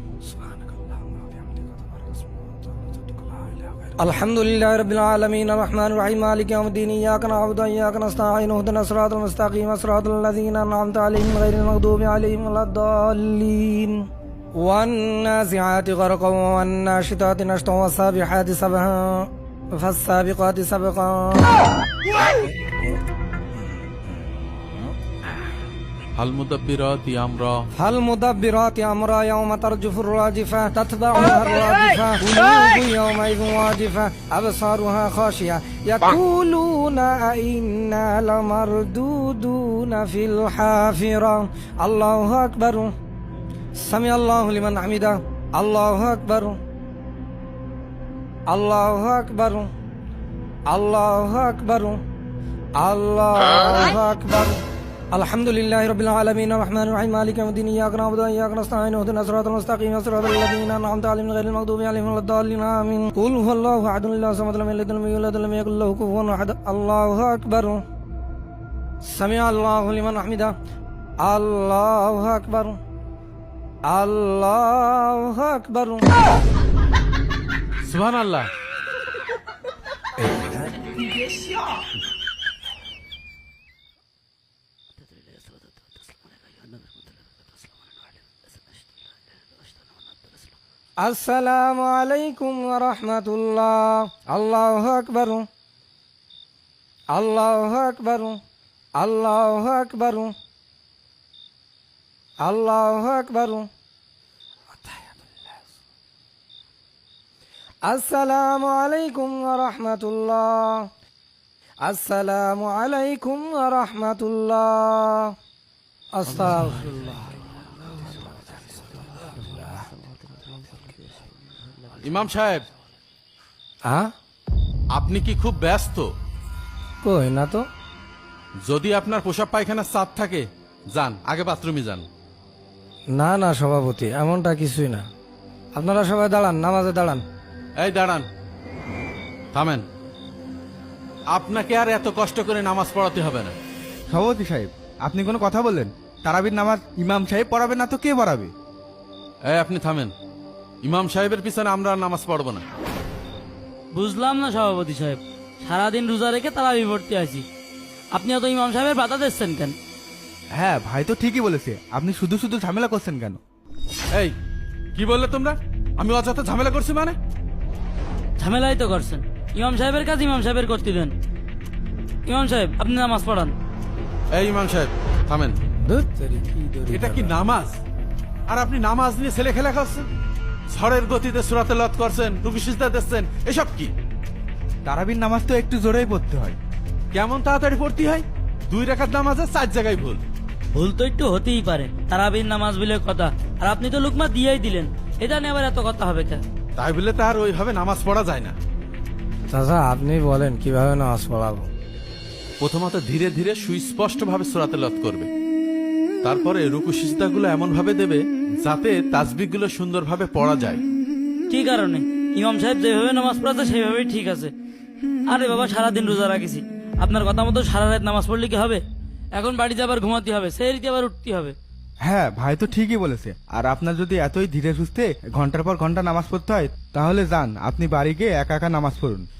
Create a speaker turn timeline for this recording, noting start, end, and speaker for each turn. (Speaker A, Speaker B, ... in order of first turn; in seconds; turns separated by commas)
Speaker A: 4.0-14.0, Speaker A: 14.6-21.6, Speaker B: 26.1-27.6, Speaker A: 27.8-42.9, Speaker A: 43.8-46.6, Speaker A: 48.5-49.7, Speaker A: 50.7-52.0, Speaker A: 52.8-54.6, Speaker A: 55.1-67.8, Speaker A: 69.0-70.5, Speaker A: 71.2-72.8, Speaker A: 73.8-76.0, Speaker B: 77.8-78.5, Speaker C: 85.0-88.9, Speaker C: 89.6-89.9, Speaker A: 91.0-95.5, Speaker A: 97.1-98.4, Speaker A: 99.0-100.3, Speaker A: 102.4-103.7, Speaker A: 107.8-110.9, Speaker A: 111.8-115.3, Speaker A: 116.1-117.1, Speaker C: 119.4-120.1, Speaker B: 122.0-122.7, Speaker A: 123.8-124.1, Speaker B: 124.9-126.1, Speaker A: 127.0-127.6, Speaker B: 128.6-132.1, Speaker A: 133.1-135.1, Speaker A: 135.7-137.2, Speaker B: 137.8-138.2, Speaker B: 139.5-139.8, Speaker B: 141.3-143.5, Speaker D: 144.1-148.5, Speaker B: 149.4-150.1, Speaker B: 150.8-152.6, Speaker C: 153.9-157.4, Speaker C: 158.1-159.7, Speaker D: 160.5-163.4, Speaker B: 164.9-167.2, Speaker C: 168.4-171.1, Speaker C: 172.2-173.5, Speaker B: 174.3-175.6, Speaker A: 175.8-177.3, Speaker B: 176.9-177.8, Speaker B: 178.5-180.1, Speaker B: 180.7-183.9, Speaker D: 184.8-186.6, Speaker B: 187.1-190.2, Speaker C: 190.7-196.4, Speaker B: 196.8-198.6, Speaker A: 199.5-201.7, Speaker B: 202.6-205.3, Speaker B: 206.2-210.8, Speaker C: 211.5-214.5, Speaker C: 215.3-218.8, Speaker C: 219.3-221.6, Speaker D: 222.0-229.3